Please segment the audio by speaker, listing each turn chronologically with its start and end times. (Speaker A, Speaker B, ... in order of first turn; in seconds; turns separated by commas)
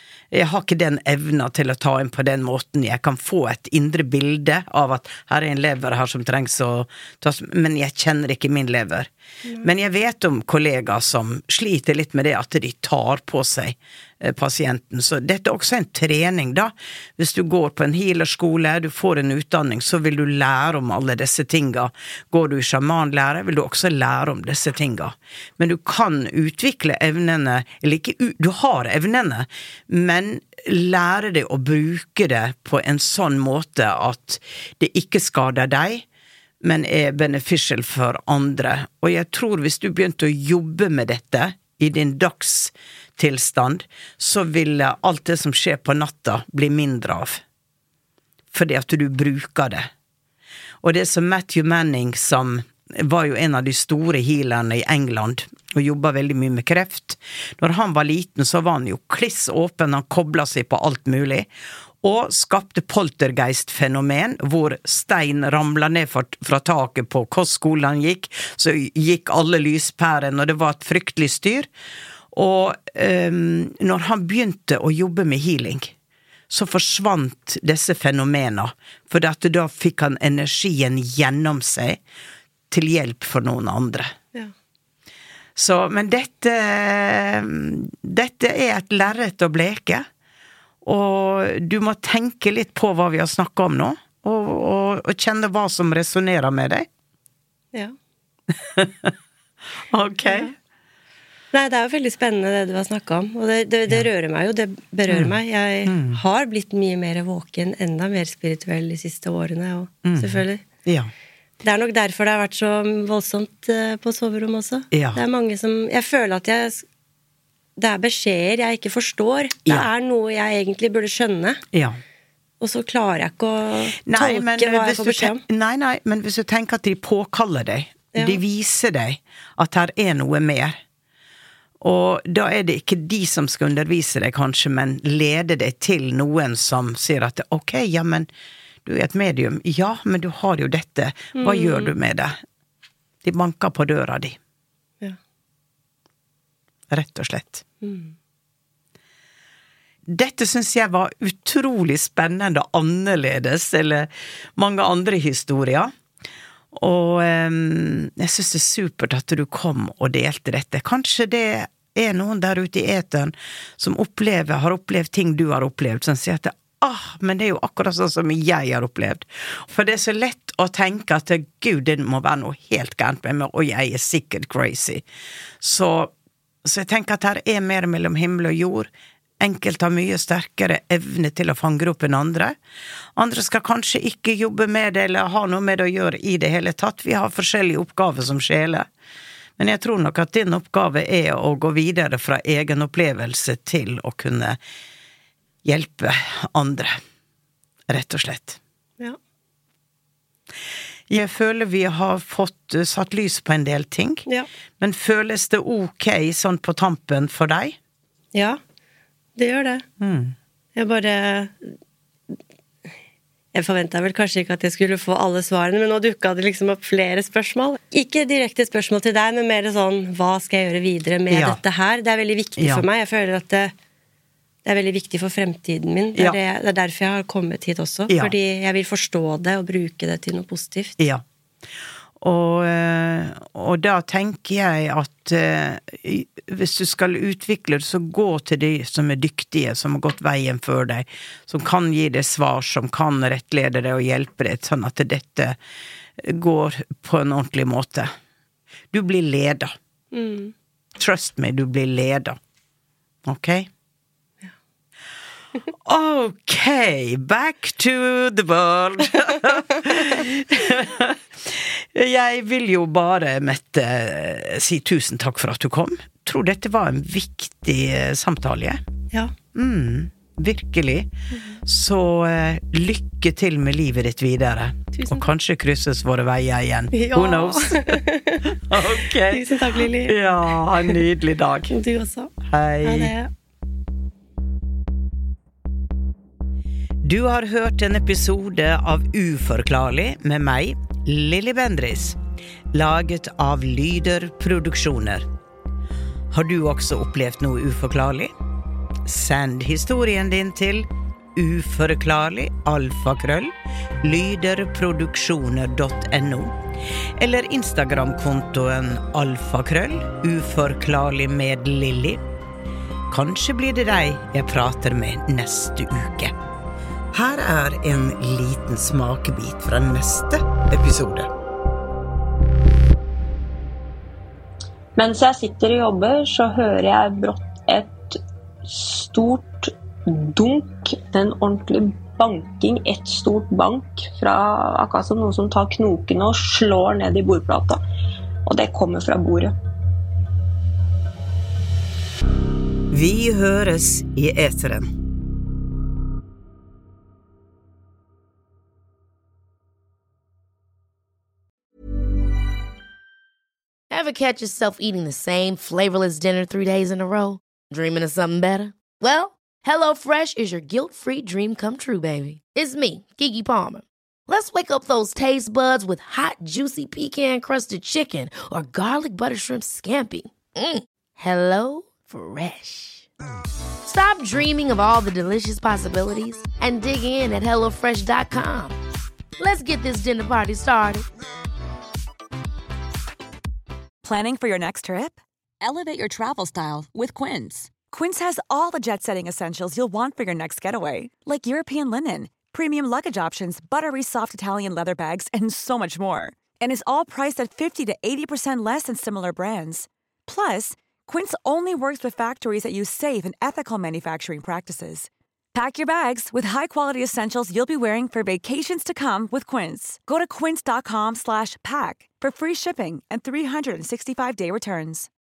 Speaker A: 0.3-9.1, Speaker A: 9.6-36.0, Speaker A: 36.6-47.4, Speaker A: 48.5-49.9, Speaker A: 50.8-61.5, Speaker A: 62.0-71.7, Speaker A: 72.3-75.9, Speaker A: 76.5-82.0, Speaker A: 82.7-84.1, Speaker A: 85.6-90.0, Speaker A: 90.8-96.9, Speaker A: 98.8-99.1, Speaker A: 99.9-100.5, Speaker B: 100.2-100.5, Speaker B: 101.5-110.6, Speaker A: 105.1-106.2, Speaker A: 110.0-111.1, Speaker B: 111.6-116.8, Speaker A: 114.9-115.2, Speaker B: 117.8-121.6, Speaker A: 121.7-122.0, Speaker B: 122.6-125.4, Speaker A: 124.0-130.8, Speaker B: 128.1-128.4, Speaker A: 131.8-138.3, Speaker A: 138.8-142.4, Speaker B: 141.4-141.9, Speaker A: 143.2-144.4, Speaker A: 146.9-147.6, Speaker B: 147.8-148.1, Speaker A: 150.1-155.9, Speaker A: 156.7-175.0, Speaker A: 175.6-176.1, Speaker A: 176.6-182.5, Speaker A: 183.2-188.9, Speaker A: 189.6-194.6, Speaker A: 195.6-197.0, Speaker A: 197.9-198.6, Speaker A: 201.1-204.2, Speaker A: 204.8-207.8, Speaker B: 208.3-208.6, Speaker B: 209.3-209.8, Speaker A: 210.0-210.3, Speaker B: 210.8-211.7, Speaker B: 213.5-223.7, Speaker A: 221.3-221.6, Speaker A: 222.6-222.8, Speaker B: 224.6-231.0, Speaker A: 232.2-245.6, Speaker A: 246.2-248.1, Speaker A: 248.9-249.7, Speaker B: 250.1-250.5, Speaker A: 251.0-252.4, Speaker A: 253.2-253.7, Speaker A: 255.8-268.8, Speaker A: 269.5-271.1, Speaker A: 271.6-278.0, Speaker B: 274.9-275.2, Speaker B: 276.9-280.2, Speaker A: 278.5-281.7, Speaker B: 281.7-282.3, Speaker A: 282.4-283.1, Speaker B: 282.8-283.3, Speaker A: 287.0-292.2, Speaker A: 292.7-295.2, Speaker A: 296.3-298.3, Speaker A: 299.1-306.5, Speaker A: 307.2-312.2, Speaker A: 313.1-316.3, Speaker A: 317.1-321.3, Speaker C: 324.9-337.8, Speaker C: 338.4-339.5, Speaker A: 342.9-344.9, Speaker D: 353.9-373.1, Speaker D: 373.8-378.7, Speaker D: 379.4-381.1, Speaker E: 384.0-415.1